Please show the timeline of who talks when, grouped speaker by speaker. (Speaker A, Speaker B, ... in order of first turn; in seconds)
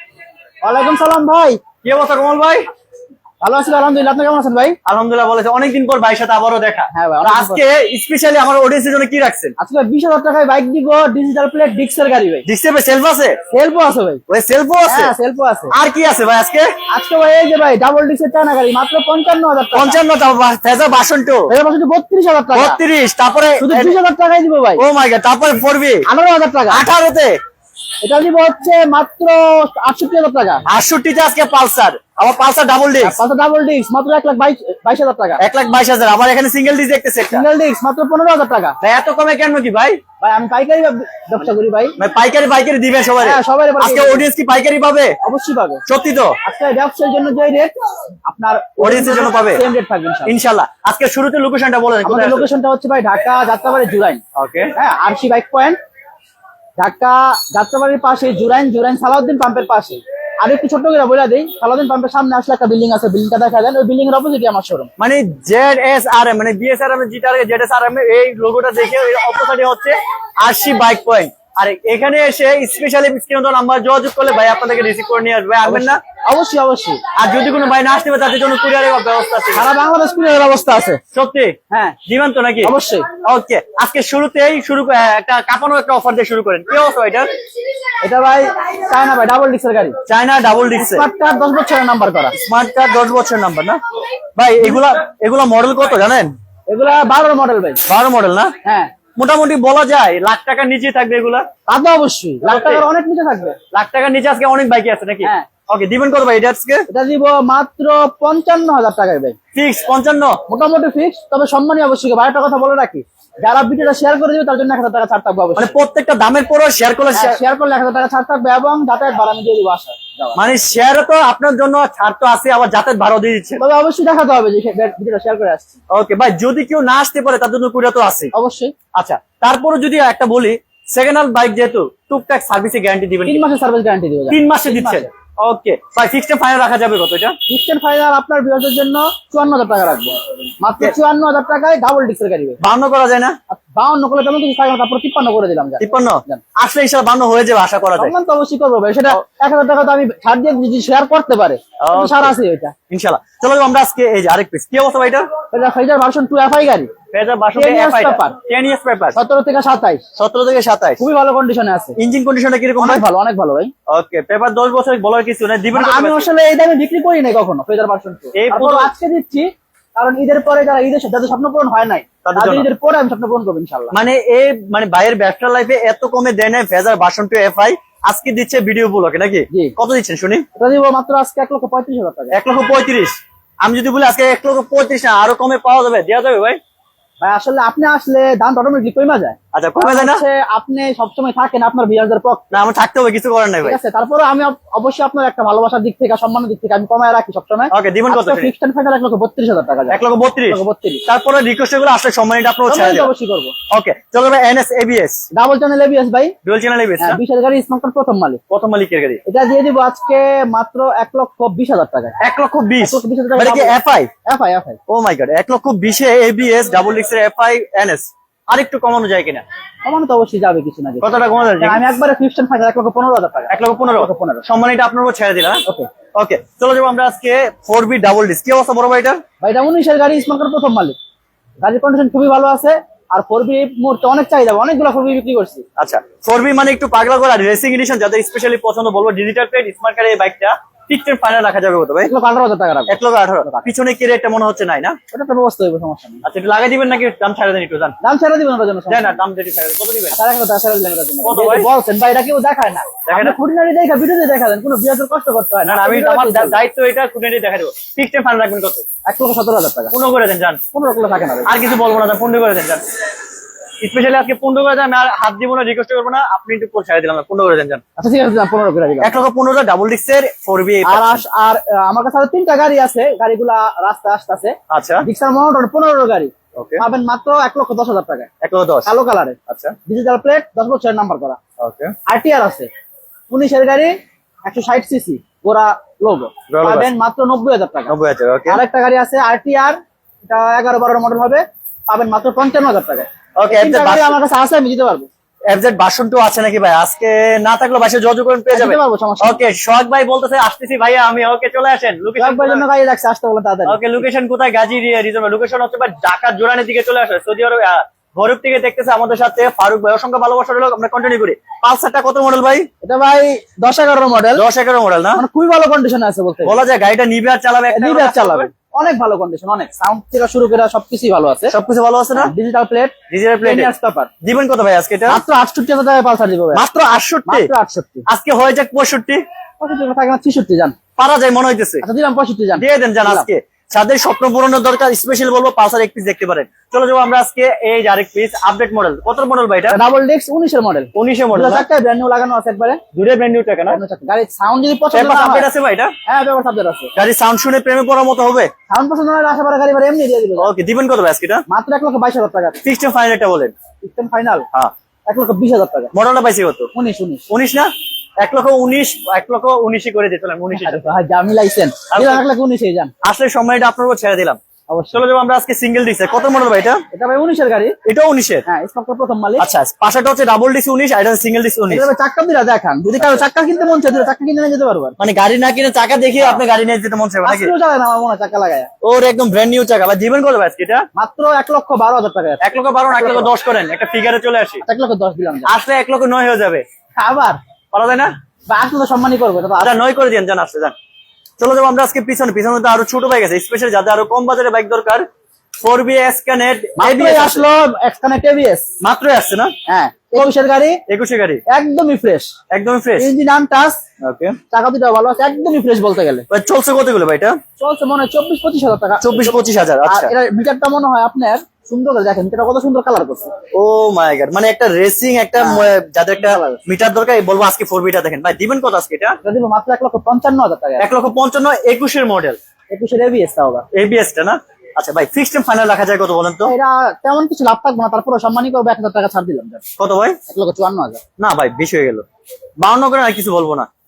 Speaker A: 0.6-1.6, 3.4-4.8, 6.9-7.6, 9.6-12.5, 13.5-14.2, 14.9-15.7, 16.9-20.0, 21.5-22.8, 23.6-24.8, 26.1-26.9, 28.0-30.6, 33.0-35.4, 37.3-38.8, 40.2-42.0, 43.2-44.3, 45.2-45.8, 46.4-50.3, 52.0-54.2, 54.8-55.8, 56.8-64.9, 75.6-77.0, 79.5-81.0, 81.7-82.0, 82.6-83.1, 88.0-90.0, 90.7-92.3, 96.7-97.8, 98.6-98.9, 101.7-103.6, 105.2-105.5, 106.9-109.4, 110.5-115.8, 117.1-120.4, 123.6-125.8, 128.3-128.7, 133.2-135.1, 137.5-142.6, 143.5-146.4, 148.0-152.7, 155.5-156.9, 157.5-158.4, 159.2-160.0, 161.0-162.0, 162.8-163.7, 165.7-173.9, 180.6-182.4, 187.2-192.5, 193.6-201.0, 202.7-203.5, 205.3-206.3, 207.0-208.4, 209.2-212.2, 212.8-214.8, 219.8-224.4, 229.4-231.0, 231.6-235.6, 242.0-243.7, 245.1-246.2, 248.0-249.2, 250.1-256.6, 259.0-259.9, 260.7-261.5, 268.0-269.2, 270.8-278.3, 278.8-281.4, 282.1-282.7, 283.3-283.9, 284.4-287.9, 288.5-295.1, 298.5-299.4, 302.1-304.0, 312.8-314.4, 315.1-316.6, 317.7-321.5, 322.1-324.1, 325.1-326.6, 327.3-328.1, 329.6-330.8, 331.8-333.3, 339.7-342.8, 343.7-345.5, 346.1-346.9, 348.7-350.5, 351.5-352.6, 353.8-354.5, 355.1-355.9, 356.7-357.2, 360.5-362.9, 364.7-365.0, 366.9-367.8, 368.4-369.4, 371.7-375.0, 377.2-378.7, 380.9-383.3, 384.6-385.5, 387.0-387.4, 388.5-389.7, 396.8-398.7, 399.7-400.8, 401.5-402.3, 403.0-403.8, 404.5-406.2, 407.6-409.3, 409.9-413.3, 415.4-415.7, 416.2-416.6, 419.2-420.9, 422.7-423.6, 426.4-429.6, 430.3-431.0
Speaker B: 1.8-2.7, 4.9-9.6, 12.5-13.4, 14.3-15.1, 15.7-16.7, 19.7-21.5, 22.5-24.0, 24.8-26.1, 26.7-27.4, 30.7-33.2, 35.4-37.5, 38.8-40.0, 42.0-45.2, 45.9-46.4, 48.8-49.6, 50.3-52.5, 54.4-54.7, 65.0-76.0, 77.2-79.7, 81.1-81.5, 82.1-87.3, 90.1-91.1, 92.4-93.8, 94.4-96.3, 97.9-98.5, 99.2-101.5, 102.4-102.9, 103.7-106.9, 109.5-110.4, 115.6-117.4, 120.3-123.6, 125.9-128.3, 128.9-133.5, 134.3-137.3, 142.6-143.3, 145.8-148.1, 151.8-152.3, 152.9-155.3, 157.1-159.2, 160.2-161.0, 162.0-163.0, 163.9-166.3, 168.3-168.9, 172.2-172.7, 173.9-180.4, 182.3-186.6, 189.5-190.2, 192.5-193.8, 197.7-198.5, 199.9-203.1, 203.7-205.2, 206.4-207.2, 208.5-209.2, 212.2-214.1, 214.9-219.4, 221.0-221.8, 223.5-225.6, 226.2-229.2, 235.8-242.1, 242.9-245.0, 246.2-248.0, 248.9-250.2, 251.2-251.7, 253.1-253.4, 255.7-258.8, 259.9-260.6, 261.4-262.8, 263.8-267.8, 269.0-271.2, 274.7-275.1, 276.5-276.8, 278.4-278.9, 279.5-279.7, 281.6-281.9, 286.5-286.9, 287.9-288.6, 293.4-294.2, 295.5-302.6, 303.6-312.7, 314.3-315.2, 316.4-318.5, 321.5-322.3, 323.1-323.7, 324.2-325.2, 326.5-327.5, 328.1-329.2, 331.0-331.8, 332.6-339.8, 340.9-341.6, 342.9-343.8, 344.9-345.9, 346.9-348.5, 350.4-351.4, 352.6-353.5, 355.9-356.7, 357.3-360.8, 361.9-362.2, 363.0-364.4, 364.9-366.8, 367.8-368.4, 369.4-371.9, 373.0-373.2, 375.0-377.5, 378.8-380.8, 382.4-384.6, 385.4-386.6, 387.7-388.1, 389.6-390.7, 391.4-395.1, 395.6-397.5, 398.8-399.5, 400.9-401.4, 402.5-403.1, 404.0-404.4, 406.3-407.4, 409.0-410.1, 413.5-419.2, 420.8-422.4, 423.7-426.5, 429.8-430.2, 431.2-432.0, 432.6-433.7